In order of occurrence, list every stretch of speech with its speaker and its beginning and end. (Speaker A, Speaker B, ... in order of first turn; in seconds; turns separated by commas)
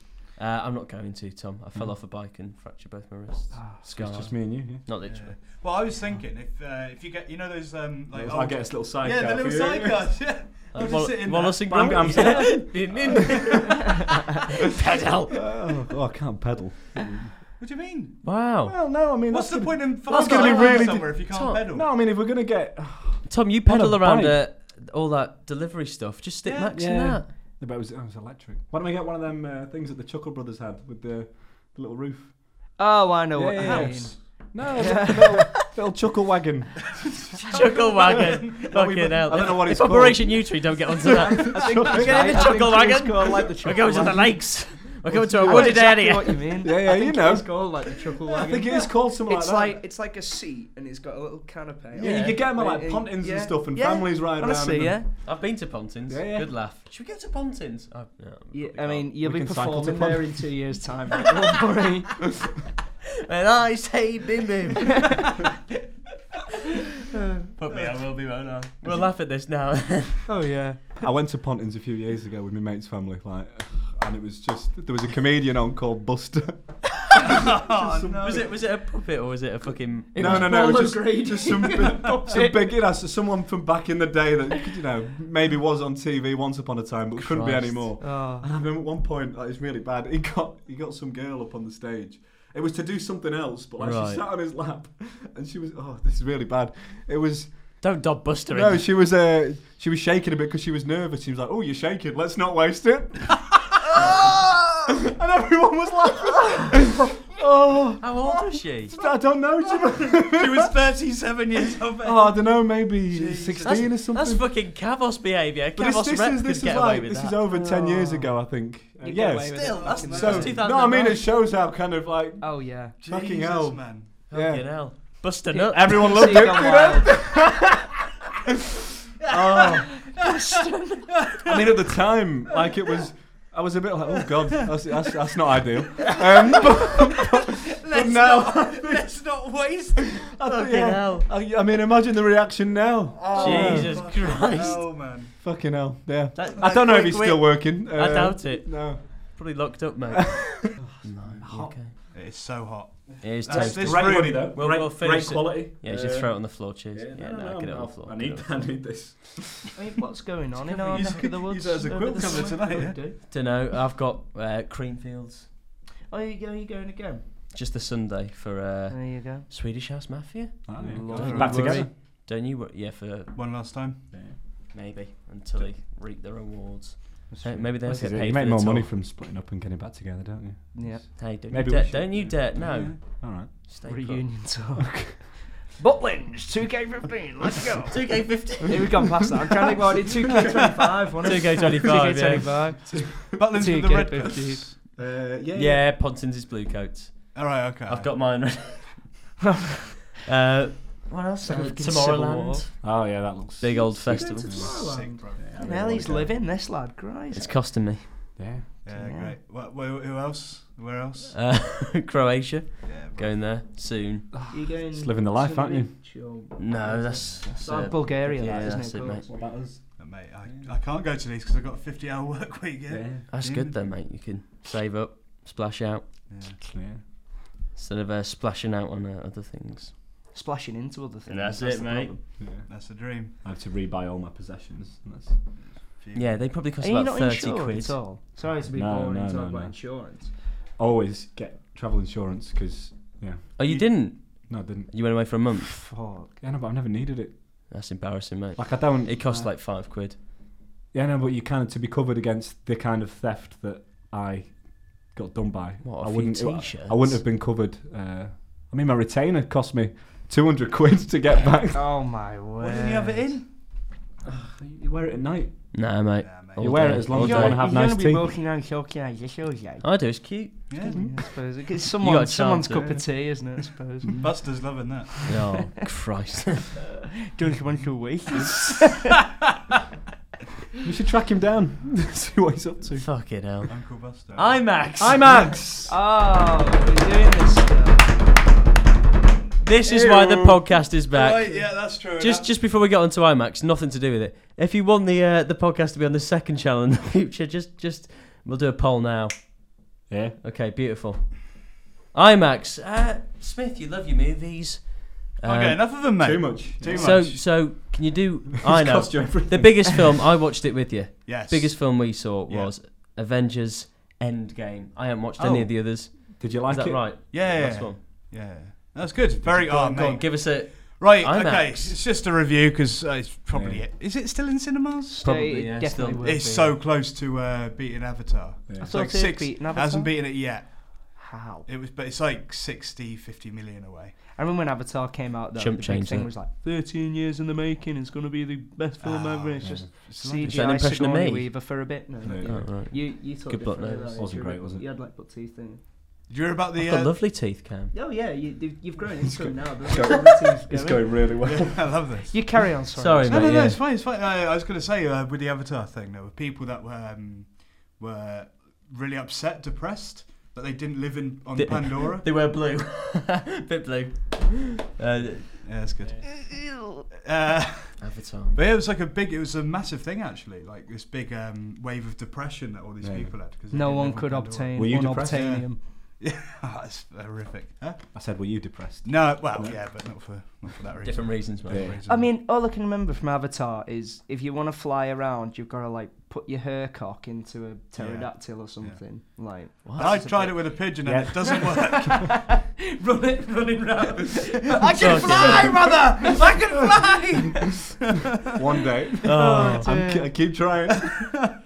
Speaker A: 0.4-5.4, Speaker B: 3.5-3.8, Speaker C: 3.9-4.8, Speaker D: 5.0-12.4, Speaker C: 8.1-10.2, Speaker A: 10.7-14.1, Speaker C: 11.7-13.5, Speaker D: 12.9-13.7, Speaker A: 14.7-15.5, Speaker C: 15.4-17.4, Speaker D: 17.6-18.3, Speaker A: 18.2-18.8, Speaker C: 18.6-24.4, Speaker D: 19.3-21.9, Speaker A: 20.1-21.6, Speaker A: 23.3-27.3, Speaker C: 26.7-32.8, Speaker B: 32.8-35.7, Speaker C: 33.3-42.6, Speaker D: 33.6-34.1, Speaker D: 37.4-38.7, Speaker A: 37.5-46.6, Speaker B: 41.3-44.6, Speaker C: 45.0-49.8, Speaker B: 45.4-55.1, Speaker C: 51.9-55.3, Speaker A: 52.0-52.4, Speaker A: 55.2-59.1, Speaker C: 56.1-56.5, Speaker B: 58.5-62.3, Speaker C: 59.2-60.6, Speaker A: 63.3-65.3, Speaker A: 67.6-70.2, Speaker D: 67.7-68.0, Speaker B: 70.3-71.0, Speaker C: 71.0-78.5, Speaker D: 77.6-78.5, Speaker A: 78.2-80.9, Speaker B: 80.1-82.8, Speaker C: 80.1-98.0, Speaker A: 87.2-88.0, Speaker B: 88.0-88.5, Speaker A: 93.8-94.2, Speaker A: 97.8-98.8, Speaker C: 98.5-104.3, Speaker D: 104.0-104.5, Speaker C: 105.1-110.7, Speaker A: 108.0-108.9, Speaker D: 110.1-113.9, Speaker C: 112.0-114.5, Speaker A: 113.7-117.4, Speaker C: 115.8-127.7, Speaker B: 117.5-118.5, Speaker B: 119.0-120.6, Speaker A: 119.5-121.2, Speaker D: 119.7-120.6, Speaker B: 122.4-123.0, Speaker D: 123.0-124.1, Speaker A: 124.3-126.6, Speaker B: 125.5-127.5, Speaker D: 129.3-130.0, Speaker C: 129.3-130.1, Speaker B: 130.0-131.6, Speaker D: 131.3-131.9, Speaker C: 131.4-139.4, Speaker B: 136.0-137.0, Speaker D: 137.8-140.4, Speaker C: 140.0-144.3, Speaker A: 140.4-141.3, Speaker D: 143.3-145.4, Speaker A: 143.3-144.9, Speaker C: 145.3-149.4, Speaker A: 146.3-151.9, Speaker C: 150.3-151.8, Speaker D: 152.1-154.8, Speaker A: 153.2-158.8, Speaker C: 153.5-159.8, Speaker B: 159.7-163.2, Speaker D: 160.6-163.0, Speaker A: 163.3-165.5, Speaker B: 166.1-167.2, Speaker A: 167.5-173.3, Speaker B: 168.9-169.5, Speaker C: 170.7-171.9, Speaker B: 170.8-171.8, Speaker D: 171.1-171.8, Speaker D: 173.3-174.1, Speaker A: 174.7-178.9, Speaker B: 177.3-177.7, Speaker C: 177.8-183.5, Speaker B: 180.7-181.1, Speaker A: 181.2-184.3, Speaker D: 182.6-183.0, Speaker B: 183.8-194.6, Speaker C: 184.8-185.2, Speaker A: 187.9-189.1, Speaker A: 191.2-192.6, Speaker C: 192.9-193.5, Speaker D: 193.3-194.8, Speaker C: 194.9-195.9, Speaker A: 195.5-199.2, Speaker D: 197.3-198.7, Speaker B: 199.4-200.1, Speaker A: 200.3-204.7, Speaker B: 201.4-202.6, Speaker C: 202.8-206.3, Speaker B: 204.1-207.5, Speaker D: 204.6-205.9, Speaker A: 207.3-208.4, Speaker C: 208.4-208.7, Speaker D: 208.8-211.6, Speaker B: 208.9-209.4, Speaker A: 211.3-214.3, Speaker D: 212.8-213.5, Speaker C: 214.3-215.9, Speaker B: 214.5-219.3, Speaker A: 216.6-219.3, Speaker D: 217.2-217.4, Speaker C: 218.4-220.7, Speaker D: 220.0-223.8, Speaker C: 222.9-223.3, Speaker A: 223.3-226.1, Speaker D: 226.3-226.6, Speaker C: 226.6-227.0, Speaker A: 227.8-229.9, Speaker B: 230.3-232.2, Speaker A: 231.3-232.1, Speaker C: 232.4-232.7, Speaker D: 232.6-233.3, Speaker C: 233.4-235.4, Speaker D: 235.6-236.5, Speaker A: 236.1-238.0, Speaker B: 236.8-240.3, Speaker C: 238.7-239.8, Speaker C: 240.8-243.9, Speaker A: 243.6-245.9, Speaker D: 243.6-243.9, Speaker C: 244.5-244.9, Speaker B: 245.7-246.3, Speaker C: 246.4-247.7, Speaker A: 247.7-250.2, Speaker C: 248.6-249.5, Speaker C: 250.9-262.1, Speaker A: 255.8-257.2, Speaker B: 261.7-263.3, Speaker D: 262.6-263.5, Speaker C: 264.2-265.9, Speaker A: 265.7-267.6, Speaker D: 266.2-267.0, Speaker C: 266.6-268.3, Speaker B: 267.0-269.9, Speaker A: 269.8-270.7, Speaker D: 270.7-271.1, Speaker B: 270.8-274.3, Speaker C: 270.9-271.2, Speaker A: 272.0-272.9, Speaker D: 274.2-275.4, Speaker A: 275.3-276.8, Speaker B: 277.3-279.2, Speaker C: 280.8-283.1, Speaker A: 283.0-285.6, Speaker D: 283.7-284.7, Speaker C: 285.0-285.9, Speaker B: 285.9-288.1, Speaker A: 289.6-299.7, Speaker C: 289.9-290.7, Speaker D: 291.1-292.5, Speaker C: 300.1-300.4, Speaker A: 300.4-305.9, Speaker D: 305.4-307.5, Speaker C: 306.2-307.3, Speaker A: 306.9-318.0, Speaker C: 308.7-310.1, Speaker D: 311.3-312.7, Speaker D: 315.4-315.7, Speaker C: 316.4-317.2, Speaker D: 317.3-325.2, Speaker A: 319.4-322.0, Speaker C: 323.5-323.8, Speaker B: 325.1-326.8, Speaker A: 325.2-326.3, Speaker D: 326.2-334.2, Speaker C: 328.7-328.9, Speaker B: 328.8-330.1, Speaker B: 331.1-331.7, Speaker B: 334.3-345.8, Speaker A: 335.6-336.3, Speaker D: 339.0-340.7, Speaker C: 339.6-339.9, Speaker A: 340.4-341.8, Speaker C: 342.2-342.7, Speaker A: 342.4-344.3, Speaker C: 344.2-344.9, Speaker D: 346.3-347.3, Speaker A: 346.8-347.9, Speaker B: 347.9-351.7, Speaker C: 349.2-352.0, Speaker D: 351.4-352.7, Speaker B: 352.3-353.5, Speaker A: 353.0-353.8, Speaker D: 353.2-362.3, Speaker A: 361.6-365.7, Speaker D: 365.6-378.3, Speaker A: 368.0-368.6, Speaker C: 373.0-373.4, Speaker B: 373.7-375.9, Speaker C: 374.7-375.6, Speaker C: 378.1-379.9, Speaker D: 379.0-382.3, Speaker A: 381.0-381.9, Speaker C: 381.7-382.0, Speaker B: 382.1-390.8, Speaker D: 388.0-389.0, Speaker D: 389.7-392.4, Speaker A: 389.9-390.5, Speaker C: 391.0-392.4, Speaker B: 391.3-398.0, Speaker D: 394.7-396.4, Speaker A: 395.0-395.8, Speaker C: 398.4-401.4, Speaker A: 399.2-399.9, Speaker B: 399.3-400.3